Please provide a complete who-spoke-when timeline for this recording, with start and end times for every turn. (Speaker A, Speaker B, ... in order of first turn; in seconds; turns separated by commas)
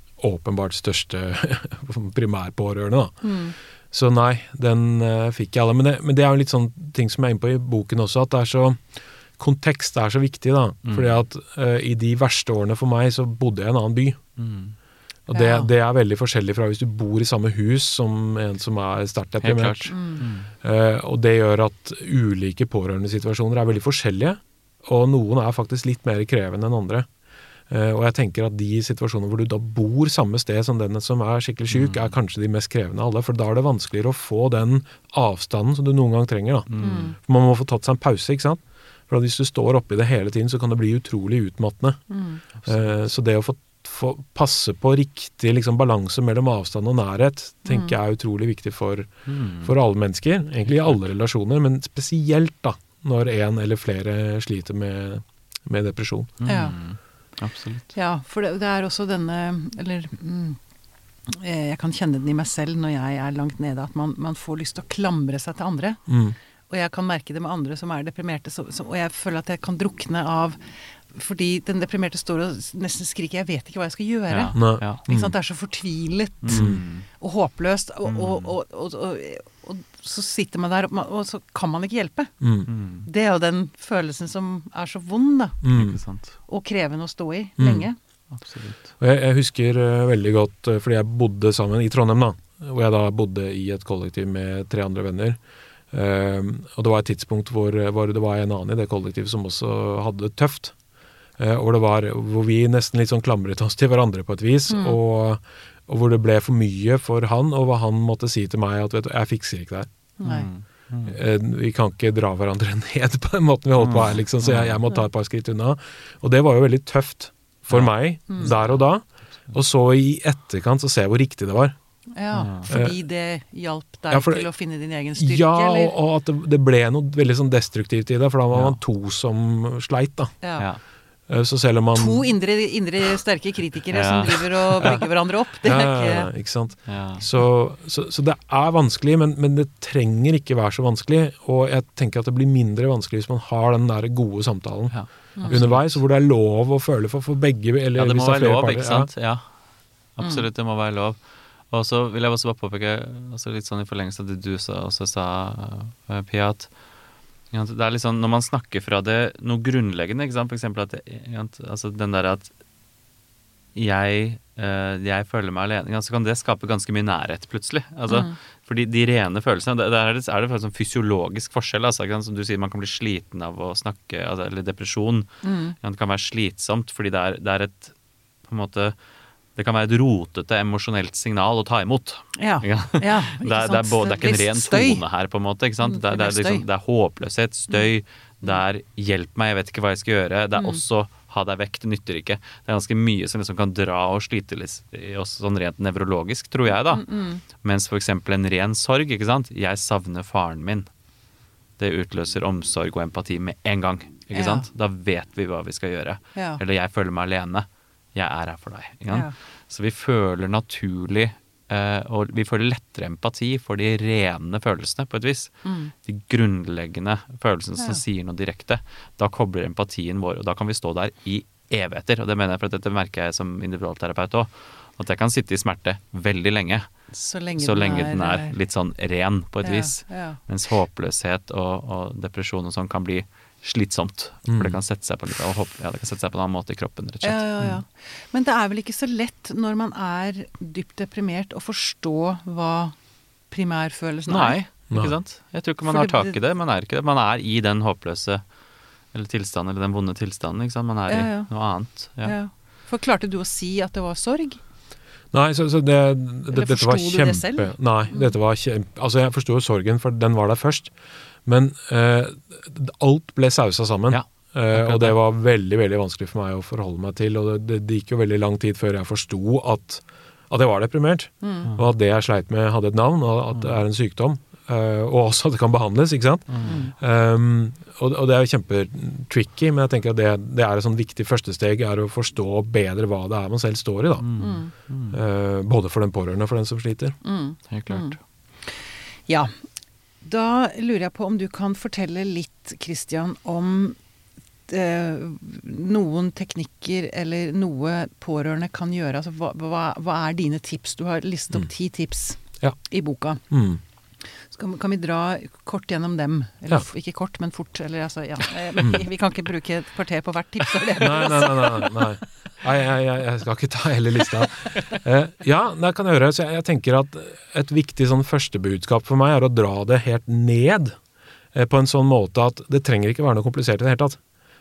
Speaker A: 0.2-3.2, Speaker B: 3.2-3.5, Speaker A: 3.9-8.8, Speaker A: 9.4-14.2, Speaker C: 10.8-11.2, Speaker C: 14.4-14.7, Speaker A: 15.3-19.9, Speaker B: 15.3-15.7, Speaker C: 19.4-20.5, Speaker B: 19.9-20.2, Speaker A: 20.6-27.1, Speaker A: 27.7-42.0, Speaker C: 31.7-32.1, Speaker C: 36.7-37.1, Speaker B: 36.8-37.2, Speaker B: 42.1-42.4, Speaker C: 42.6-43.0, Speaker A: 42.6-49.1, Speaker B: 47.7-48.0, Speaker C: 49.3-49.7, Speaker A: 49.6-56.3, Speaker C: 56.4-57.9, Speaker B: 56.4-56.8, Speaker B: 57.9-60.6, Speaker B: 61.3-66.0, Speaker A: 66.1-66.4, Speaker B: 66.7-82.3, Speaker C: 74.3-75.0, Speaker A: 74.5-75.3, Speaker C: 76.4-77.1, Speaker A: 76.5-76.8, Speaker C: 78.0-78.5, Speaker A: 82.4-82.7, Speaker C: 82.7-83.1, Speaker B: 83.0-85.6, Speaker A: 85.6-86.0, Speaker C: 85.7-86.4, Speaker B: 86.5-88.0, Speaker A: 87.6-87.8, Speaker C: 88.3-88.8, Speaker A: 89.0-95.4, Speaker A: 95.9-100.8, Speaker A: 101.4-109.9, Speaker B: 104.7-105.0, Speaker B: 110.2-110.5, Speaker C: 110.2-111.2, Speaker A: 111.1-121.8, Speaker C: 113.8-114.8, Speaker C: 117.7-118.9, Speaker B: 122.1-125.9, Speaker C: 122.3-122.7, Speaker A: 122.7-123.0, Speaker A: 124.1-124.5, Speaker A: 125.2-130.3, Speaker C: 128.5-128.8, Speaker A: 131.3-132.3, Speaker B: 131.9-136.3, Speaker C: 133.9-135.0, Speaker A: 135.6-149.1, Speaker C: 136.9-137.3, Speaker C: 144.9-146.0, Speaker C: 148.0-149.5, Speaker C: 150.2-151.2, Speaker C: 151.7-156.7, Speaker C: 157.5-162.5, Speaker C: 163.8-179.0, Speaker B: 168.1-168.3, Speaker B: 175.4-175.8, Speaker C: 179.6-200.9, Speaker B: 182.4-185.0, Speaker B: 185.8-186.6, Speaker B: 190.6-190.8, Speaker B: 196.9-197.4, Speaker C: 201.8-226.9, Speaker B: 204.3-204.7, Speaker B: 206.4-206.6, Speaker B: 215.7-215.9, Speaker B: 217.8-218.0, Speaker B: 227.1-228.5, Speaker C: 227.6-237.6, Speaker B: 229.6-230.4, Speaker A: 234.5-234.8, Speaker B: 237.2-242.9, Speaker B: 243.5-244.6, Speaker C: 244.3-248.4, Speaker A: 244.9-245.2, Speaker B: 245.8-246.4, Speaker C: 249.1-252.4, Speaker B: 251.1-254.6, Speaker A: 255.3-260.9, Speaker B: 256.5-258.3, Speaker A: 261.4-284.3, Speaker C: 264.1-265.2, Speaker B: 271.4-271.7, Speaker C: 276.5-276.8, Speaker B: 276.6-276.9, Speaker C: 284.2-285.2, Speaker B: 284.4-284.7, Speaker A: 285.1-287.2, Speaker B: 287.2-289.5, Speaker C: 287.7-288.1, Speaker B: 290.2-294.0, Speaker B: 294.7-303.4, Speaker A: 303.5-303.8, Speaker B: 304.4-312.0, Speaker A: 308.8-309.0, Speaker A: 311.0-320.9, Speaker A: 321.5-324.2